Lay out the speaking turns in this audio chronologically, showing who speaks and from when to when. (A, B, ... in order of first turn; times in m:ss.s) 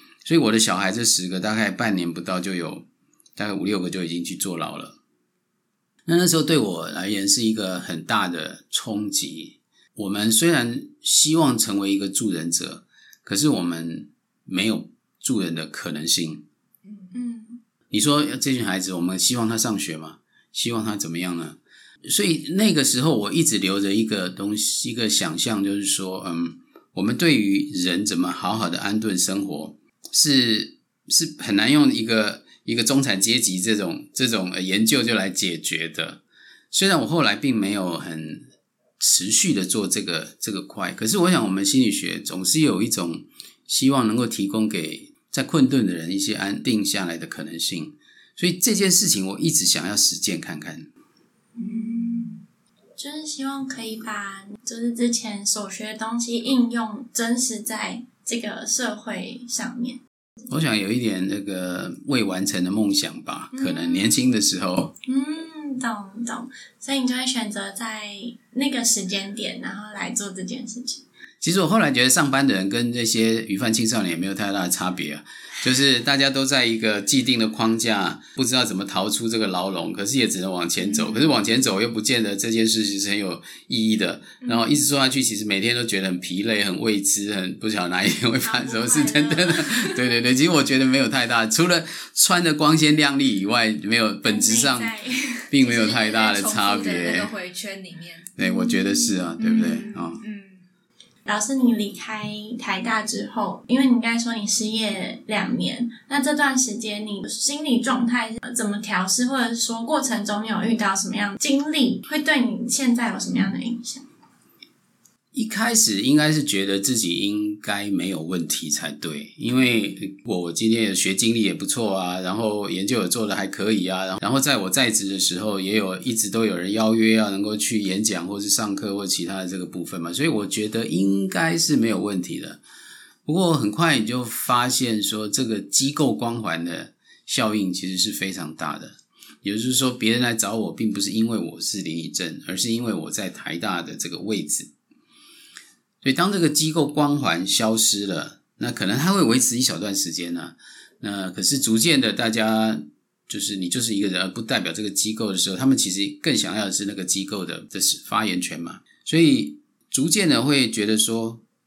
0:00.2-0:02.8 A
0:03.4-0:05.0 A
0:06.1-0:16.4 A
0:17.1-0:17.6 B
0:17.9-0:38.4 A
0:39.0-0:50.9 A
0:51.5-0:52.4 B
0:51.6-0:52.4 C
0:53.0-1:00.0 B
1:00.5-1:04.9 A
1:03.5-1:04.3 B
1:05.0-1:11.0 B
1:11.4-1:34.9 A
1:20.8-1:21.2 C
1:28.4-1:29.9 B
1:34.2-1:35.5 B
1:35.5-1:37.3 A
1:35.6-1:38.3 C
1:38.4-1:40.2 A
1:38.4-1:39.1 B
1:39.4-1:40.6 C
1:41.2-1:54.0 B
1:55.3-2:12.6 A
2:13.2-2:24.7 A
2:26.0-2:41.4 A